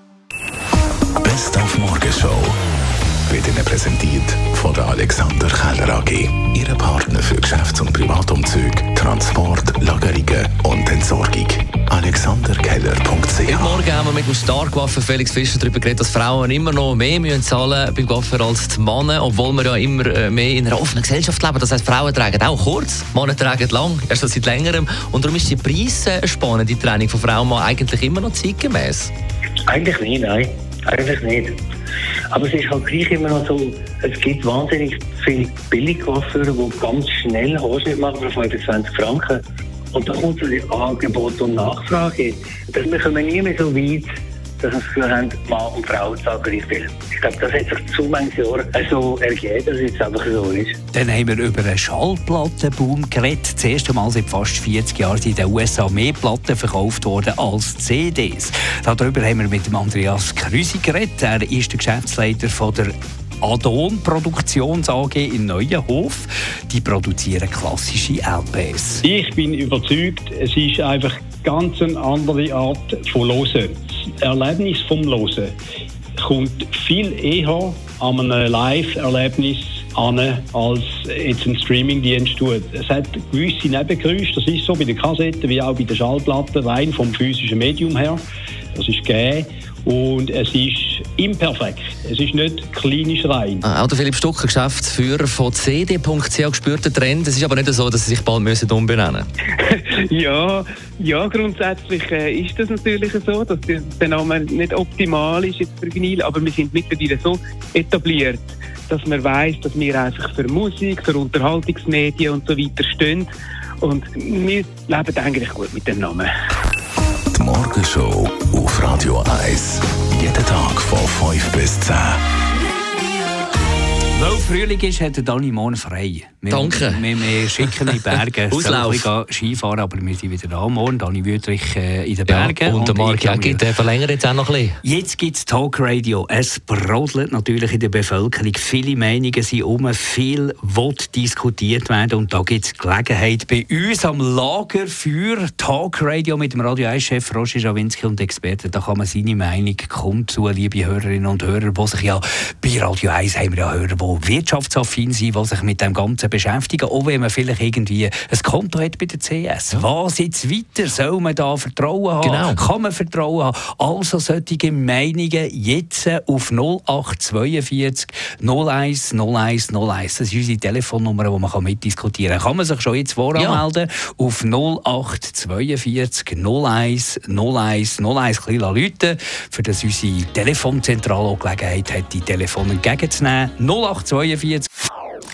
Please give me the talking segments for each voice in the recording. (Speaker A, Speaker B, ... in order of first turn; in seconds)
Speaker A: 1.2-2.6, 3.3-13.8, 117.3-122.2
Speaker B: 13.4-29.1, 93.6-99.3, 126.5-127.1, 127.6-129.1, 132.3-134.8, 162.2-162.6, 173.3-173.6
Speaker C: 29.7-31.6, 32.3-39.4, 39.9-50.8
Speaker D: 50.9-69.0, 124.1-133.6, 134.8-184.7
Speaker E: 69.0-75.5, 76.2-88.2, 88.7-93.7
Speaker F: 99.6-113.3, 113.8-116.3